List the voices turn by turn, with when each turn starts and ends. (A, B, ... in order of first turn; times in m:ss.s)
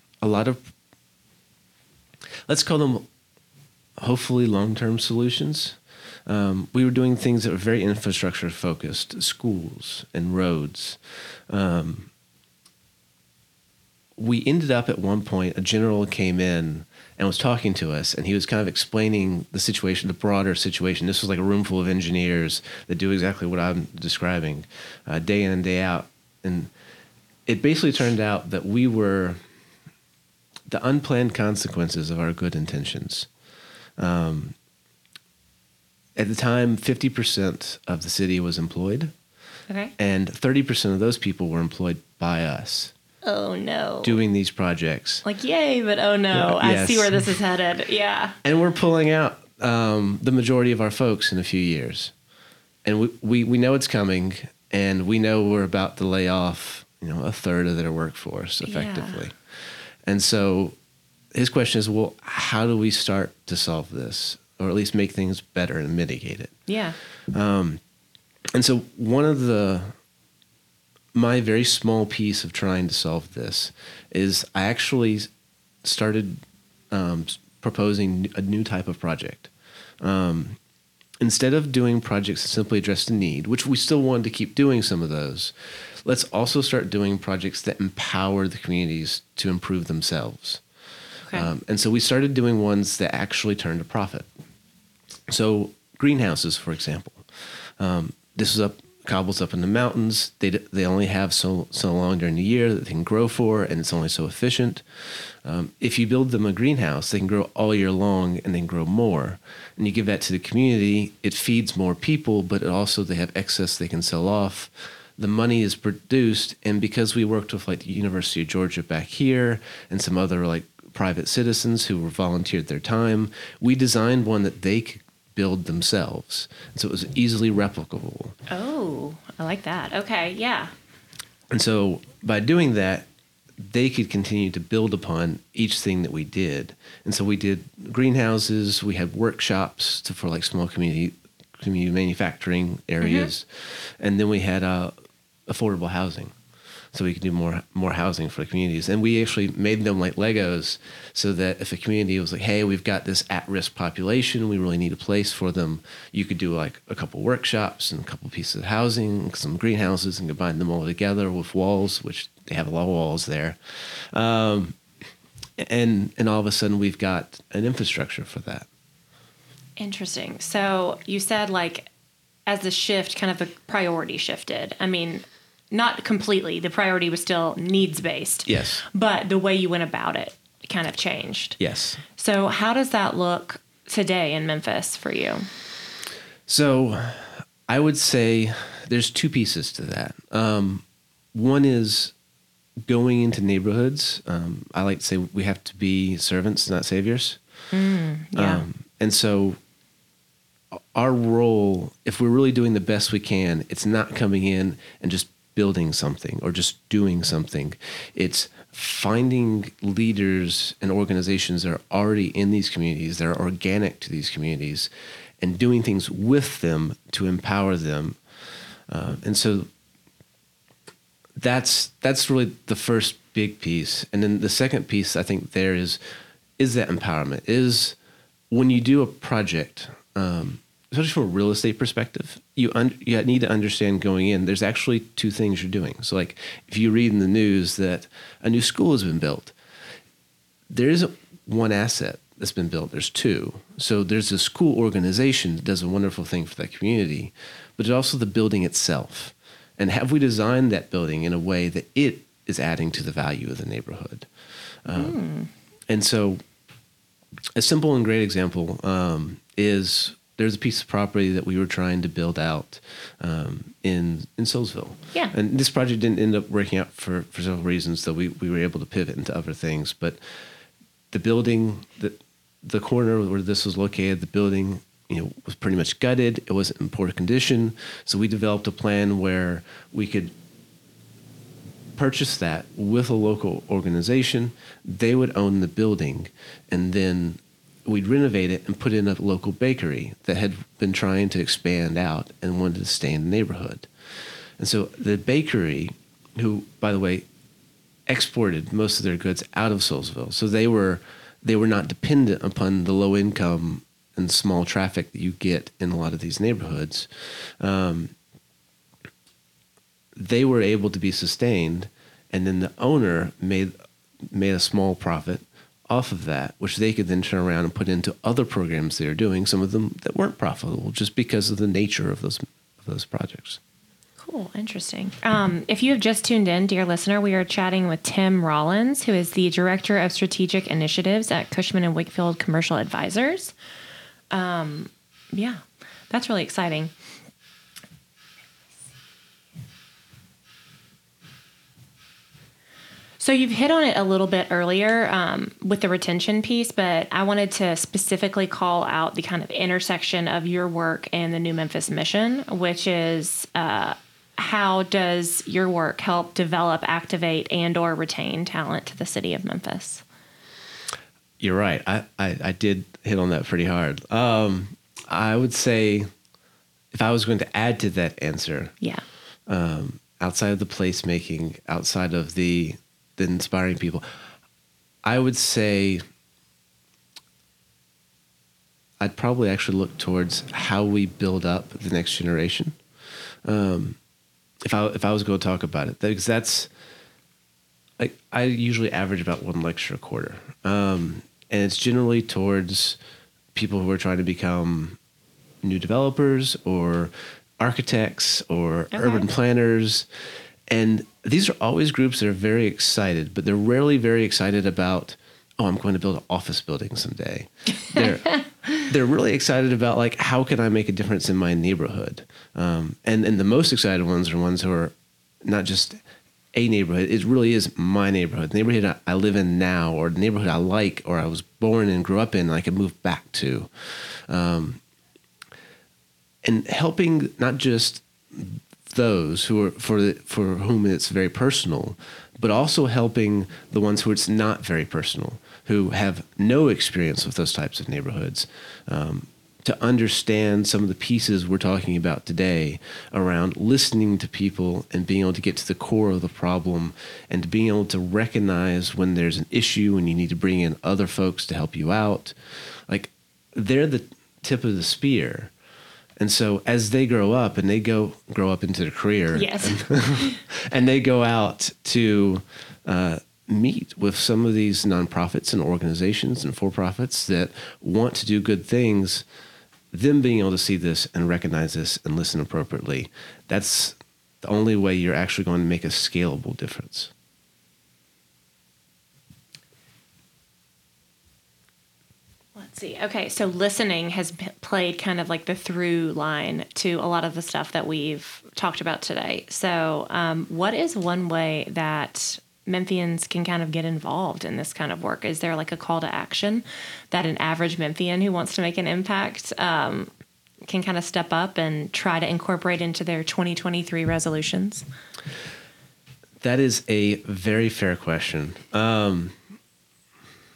0:00.2-0:00.6 A
0:02.5-0:03.1 A
0:04.0-0:11.0 A
0:11.5-0:12.1 A
0:14.2-0:26.7 A
0:27.5-0:29.4 A
0:30.7-0:33.3 A
0:34.0-0:34.6 A
0:36.2-0:39.1 A
0:40.0-0:42.9 A
0:43.2-0:44.2 B
0:44.0-0:45.2 A
0:45.2-0:48.4 B
0:46.3-0:47.3 A
0:48.4-0:52.1 A
0:52.8-0:59.4 A
0:58.6-0:59.2 B
1:00.0-1:00.8 A
1:01.3-1:06.6 A
1:06.7-1:07.0 B
1:07.3-1:07.8 A
1:08.5-1:09.9 A
1:11.1-1:15.3 A
1:15.8-1:19.5 A
1:20.0-1:20.6 A
1:21.2-1:25.5 A
1:26.0-1:30.6 A
1:31.3-1:34.3 A
1:35.3-1:37.2 A
1:37.8-1:44.8 A
1:45.4-2:08.4 A
2:08.5-2:10.7 B
2:11.5-2:13.1 A
2:13.6-2:23.5 A
2:23.0-2:23.3 B
2:24.0-2:25.0 A
2:25.5-2:26.3 A
2:26.9-2:43.6 A
2:44.1-2:44.8 A
2:45.6-2:48.7 A
2:49.8-2:51.9 B
2:52.5-3:01.6 B
2:58.5-2:58.8 A
3:01.6-3:02.0 A
3:02.2-3:05.5 B
3:06.5-3:10.8 A
3:11.3-3:12.1 A
3:12.8-3:17.4 A
3:17.7-3:18.6 B
3:18.4-3:19.6 A
3:20.9-3:34.9 A
3:35.4-3:38.2 A
3:38.9-3:39.7 A
3:41.4-3:46.0 A
3:46.6-3:48.0 A
3:48.5-3:59.5 A
4:00.7-4:14.3 A
4:14.8-4:15.2 A
4:15.0-4:15.5 B
4:15.9-4:16.4 A
4:17.6-4:30.2 A
4:31.1-4:40.3 A
4:42.0-4:53.9 A
4:54.6-4:57.3 A
4:58.1-5:07.1 A
5:07.6-5:08.1 A
5:10.2-5:13.7 A
5:14.3-5:23.6 A
5:24.2-5:33.5 B
5:34.3-5:36.9 B
5:43.2-6:00.0 B
6:01.4-6:06.1 A
6:06.9-6:08.8 A
6:09.5-6:14.0 A
6:15.0-6:16.0 A
6:19.0-6:22.8 A
6:23.4-6:24.0 A
6:24.6-6:26.7 A
6:28.0-6:33.0 A
6:33.6-6:35.0 A
6:35.6-6:40.1 A
6:38.9-6:39.2 B
6:40.7-6:56.0 A
6:56.5-7:03.7 A
7:04.3-7:04.8 A
7:06.4-7:32.3 A
7:32.9-7:35.5 A
7:36.2-7:49.2 A
7:39.3-7:40.4 B
7:49.9-7:57.1 A
8:02.6-8:20.1 B
8:20.7-8:24.9 B
8:26.4-8:29.4 A